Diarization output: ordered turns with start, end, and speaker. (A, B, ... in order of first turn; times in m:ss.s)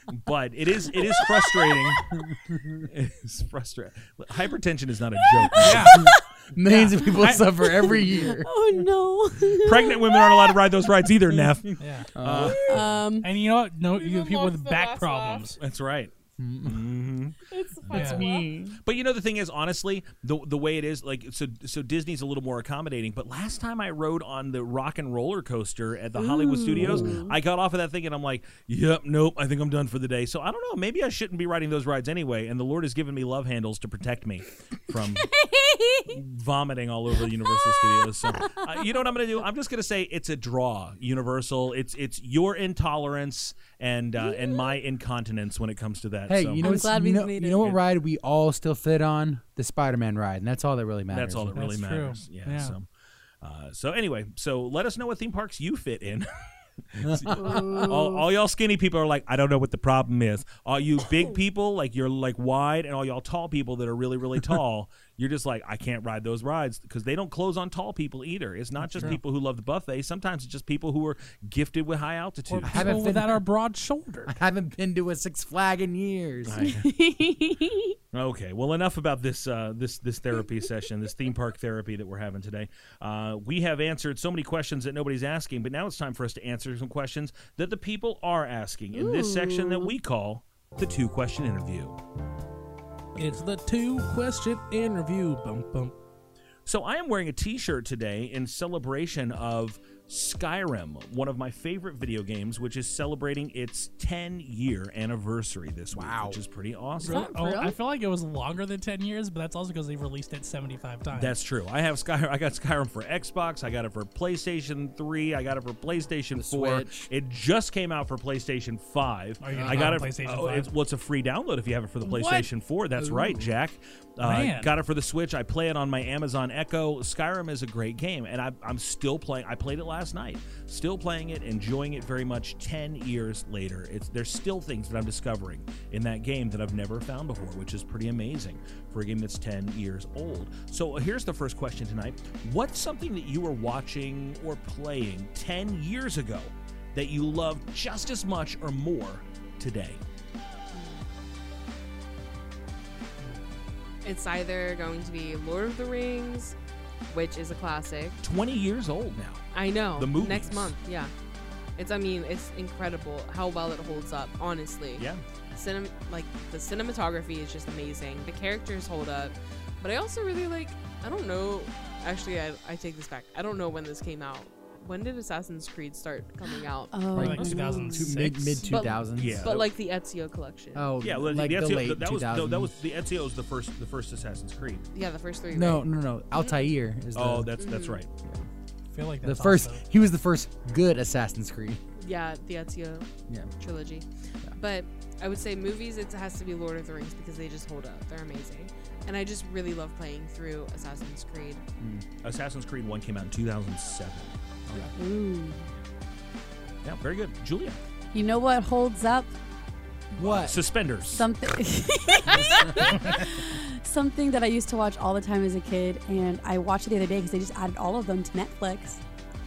0:00.1-0:02.1 A
0:01.1-0:01.5 B
0:02.2-0:02.8 C
0:02.8-0:06.0 A
0:05.6-0:06.1 D
0:05.8-0:06.2 B
0:06.0-0:08.5 C
0:06.7-0:07.4 D
0:07.6-0:10.6 B
0:09.6-0:12.9 A
0:11.8-0:12.1 D
0:12.1-0:12.7 C
0:12.6-0:13.3 B
0:13.2-0:15.6 D
0:13.9-0:15.5 E
0:15.6-0:16.1 A
0:16.4-0:16.9 C
0:16.6-0:17.4 A
0:17.5-0:18.5 E
0:17.9-0:18.2 D
0:18.0-0:18.8 C
0:18.8-0:35.3 A
0:26.2-0:27.4 B
0:26.8-0:27.2 C
0:35.3-0:36.1 B
0:36.1-0:46.8 A
0:46.3-0:51.6 C
0:46.6-0:47.7 B
0:51.1-0:52.8 A
0:51.5-0:52.8 D
0:53.4-0:56.3 A
0:56.9-1:13.0 A
0:57.0-0:57.9 C
0:57.3-0:58.2 B
1:12.5-1:14.3 D
1:12.6-1:13.4 C
1:14.3-1:16.7 C
1:16.5-1:16.8 A
1:16.6-1:18.0 B
1:18.1-1:32.0 A
1:28.9-1:29.9 B
1:33.2-1:35.9 D
1:36.7-1:47.3 A
1:45.9-1:46.4 C
1:47.0-1:47.8 B
1:47.0-1:51.4 D
1:51.1-2:30.0 A
1:56.3-1:57.1 C
1:59.4-2:00.7 D
1:59.5-2:00.0 C
2:03.0-2:03.5 C
2:04.2-2:04.7 D
2:30.7-2:31.0 E
2:34.0-2:36.6 E
2:37.1-2:38.2 E
2:38.2-2:40.7 A
2:39.5-2:41.1 E
2:41.8-2:57.5 E
2:45.0-2:45.2 A
2:56.9-2:58.2 B
2:57.1-2:58.7 D
2:57.2-2:59.5 C
2:58.7-3:00.9 E
2:59.2-2:59.7 A
3:00.8-3:02.7 C
3:01.0-3:04.8 A
3:04.9-3:06.7 E
3:05.5-3:07.5 C
3:07.1-3:08.1 A
3:07.6-3:08.0 E
3:08.9-3:09.8 D
3:09.2-3:11.8 C
3:12.0-3:13.1 E
3:13.6-3:21.6 E
3:21.8-3:22.1 C
3:22.2-3:24.9 A
3:24.7-3:24.9 C
3:25.0-3:25.7 B
3:26.8-3:27.8 A
3:28.1-3:29.3 B
3:30.2-3:30.6 C
3:30.2-3:31.3 A
3:31.1-3:39.0 B